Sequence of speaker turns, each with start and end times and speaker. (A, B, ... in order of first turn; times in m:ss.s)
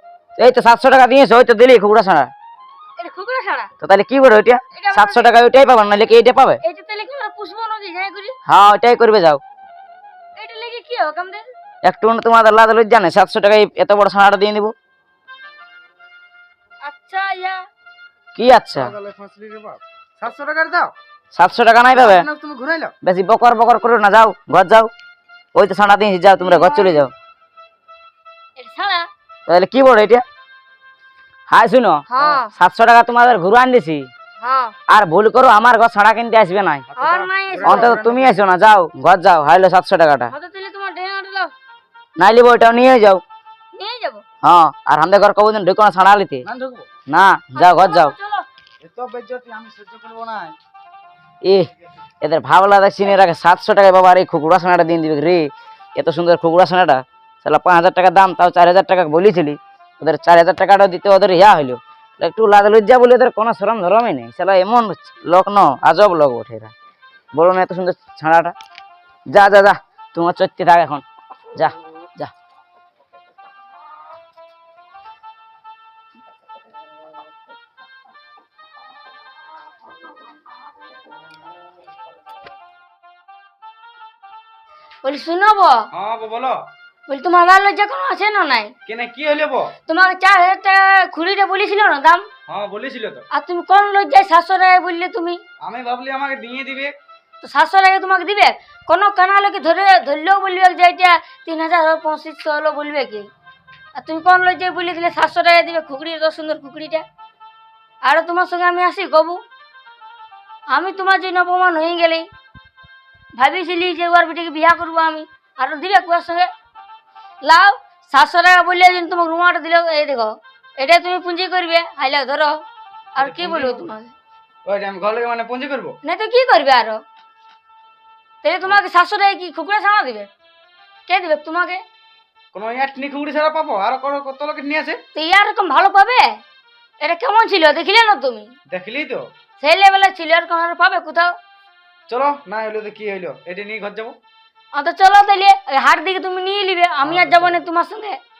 0:00.4-0:02.3 A
0:03.0-0:03.7 B
0:03.8-0:06.6 A
0:04.7-0:05.5 B
0:06.0-0:08.4 B
0:08.4-0:09.4 A
0:10.4-0:11.4 B
0:11.8-0:14.7 A
0:16.8-0:17.6 B
0:18.3-0:18.9 A
0:18.8-0:20.9 C
0:21.3-0:22.3 A
0:22.0-0:22.9 C
0:23.0-0:24.9 A
0:25.5-0:27.1 A
0:26.4-0:27.1 B
0:28.6-0:29.0 B
0:29.5-0:30.2 A
0:31.5-0:34.1 A
0:32.1-0:32.5 B
0:34.4-0:34.7 B
0:34.9-0:36.8 A
0:36.9-0:38.4 C
0:37.0-0:37.9 B
0:37.6-0:40.3 A
0:40.3-0:41.5 B
0:42.2-0:43.2 A
0:43.7-0:44.2 B
0:44.4-0:46.4 A
0:46.4-0:46.9 C
0:47.1-0:48.1 A
0:47.6-0:48.5 B
0:48.8-0:50.6 C
0:52.2-1:06.7 A
1:07.3-1:08.5 A
1:09.3-1:12.3 A
1:25.0-1:25.8 B
1:25.9-1:26.7 C
1:27.1-1:28.7 B
1:28.8-1:29.7 C
1:29.8-1:32.3 B
1:32.5-1:33.2 C
1:33.3-1:35.4 B
1:35.6-1:37.0 C
1:37.4-1:43.3 B
1:43.9-1:47.0 B
1:48.0-1:49.4 B
1:50.7-1:52.2 B
1:53.3-1:56.5 B
1:57.4-2:02.6 B
2:03.1-2:04.1 B
2:03.2-2:03.9 C
2:04.6-2:06.0 C
2:06.0-2:07.0 B
2:08.4-2:10.3 B
2:11.1-2:11.8 B
2:12.5-2:15.0 C
2:15.1-2:16.4 B
2:17.0-2:18.5 B
2:18.7-2:19.3 C
2:19.6-2:21.4 B
2:22.1-2:24.2 C
2:24.7-2:28.2 B
2:27.0-2:27.6 C